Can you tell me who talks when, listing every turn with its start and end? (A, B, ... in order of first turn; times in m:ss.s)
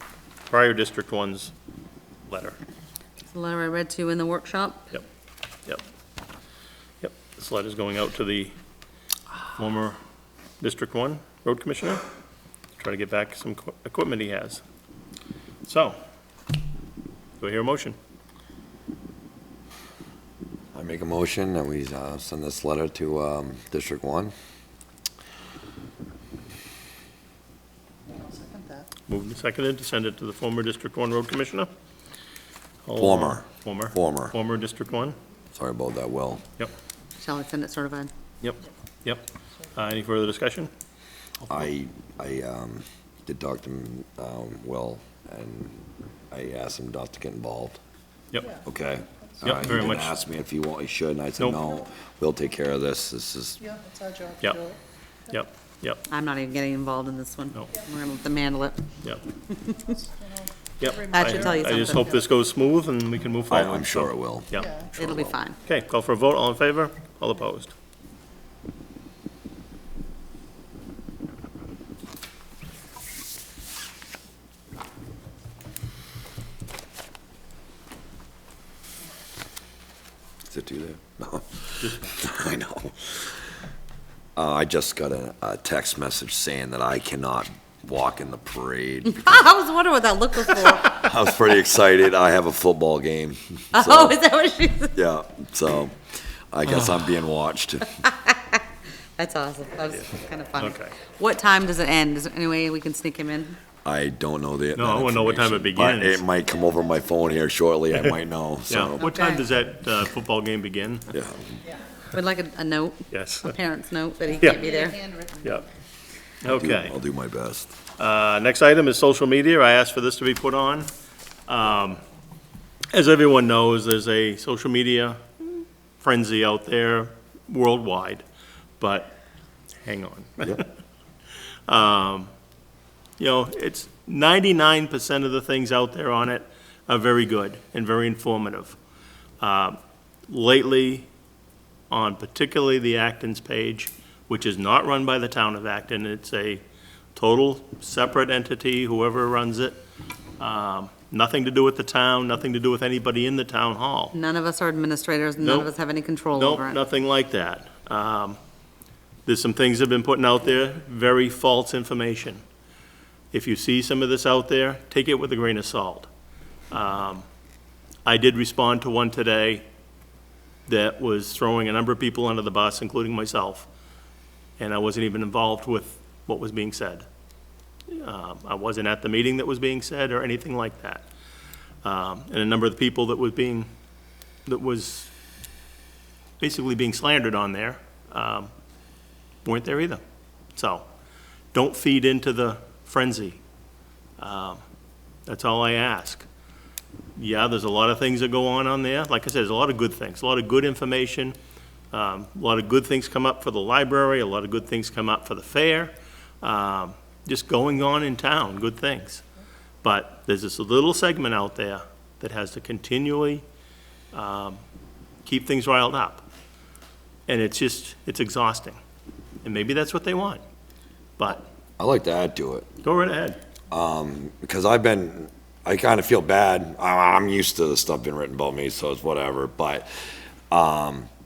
0:00.5-0:01.5 A
0:02.2-0:02.6 A
0:03.3-0:04.9 B
0:07.0-0:08.5 A
0:09.5-0:10.0 A
0:10.6-0:12.0 A
0:12.8-0:14.6 A
0:15.6-0:16.0 A
0:17.4-0:18.0 A
0:20.7-0:24.3 C
0:28.2-0:28.8 D
0:29.1-0:31.7 A
0:32.8-0:35.2 A
0:33.0-0:34.3 C
0:35.5-0:36.4 C
0:37.2-0:38.1 B
0:38.4-0:40.7 A
0:41.5-0:47.8 C
0:48.3-0:48.6 A
0:48.6-0:53.6 C
0:49.4-0:50.1 A
0:53.7-0:54.8 D
0:55.3-0:56.0 A
0:56.1-0:58.8 B
0:59.5-0:59.9 B
1:00.0-1:00.4 D
1:00.8-1:04.7 A
1:01.1-1:02.1 B
1:03.5-1:05.4 C
1:05.0-1:05.6 B
1:05.6-1:07.7 A
1:20.5-1:23.3 C
1:21.8-1:22.1 A
1:24.3-1:29.5 C
1:29.0-1:31.1 B
1:30.8-1:34.2 C
1:33.7-1:35.0 B
1:34.9-1:36.0 C
1:36.5-1:38.0 C
1:38.0-1:38.6 B
1:39.2-1:43.6 B
1:40.6-1:41.0 A
1:43.8-1:49.0 C
1:44.7-1:46.2 A
1:48.7-1:51.1 A
1:49.1-1:49.4 B
1:51.1-1:51.4 C
1:52.1-1:55.2 B
1:53.1-1:53.5 A
1:56.4-1:57.0 A
1:56.5-1:57.7 C
1:58.0-2:00.9 A
2:01.5-2:02.0 A
2:02.9-2:08.2 A
2:08.8-2:09.1 A
2:09.8-2:10.7 A
2:11.7-2:12.3 A
2:13.2-2:18.8 A
2:19.4-2:19.8 A
2:20.3-2:21.1 A
2:21.9-2:26.6 A
2:27.1-2:29.8 A
2:30.4-2:34.2 A
2:34.1-2:36.8 B
2:35.4-2:35.7 A
2:36.3-2:38.4 A
2:39.2-2:42.4 A
2:43.3-2:46.1 A
2:46.7-2:47.2 A
2:48.0-2:49.6 A
2:50.7-2:53.7 A
2:54.6-2:57.0 A
2:57.9-3:01.1 A
3:01.8-3:03.7 A
3:04.4-3:05.1 A
3:06.4-3:08.5 A
3:09.4-3:10.0 A
3:10.5-3:10.8 A
3:11.5-3:13.4 A
3:14.2-3:14.6 A
3:15.2-3:16.2 A
3:17.2-3:21.4 A
3:21.9-3:29.2 A
3:29.8-3:33.4 A
3:34.1-3:34.6 A
3:35.2-3:36.2 A
3:37.3-3:38.8 A
3:39.4-3:40.4 A
3:41.2-3:41.4 A
3:41.8-3:42.7 C
3:42.8-3:43.4 A
3:43.7-3:49.9 C
3:50.5-3:51.1 C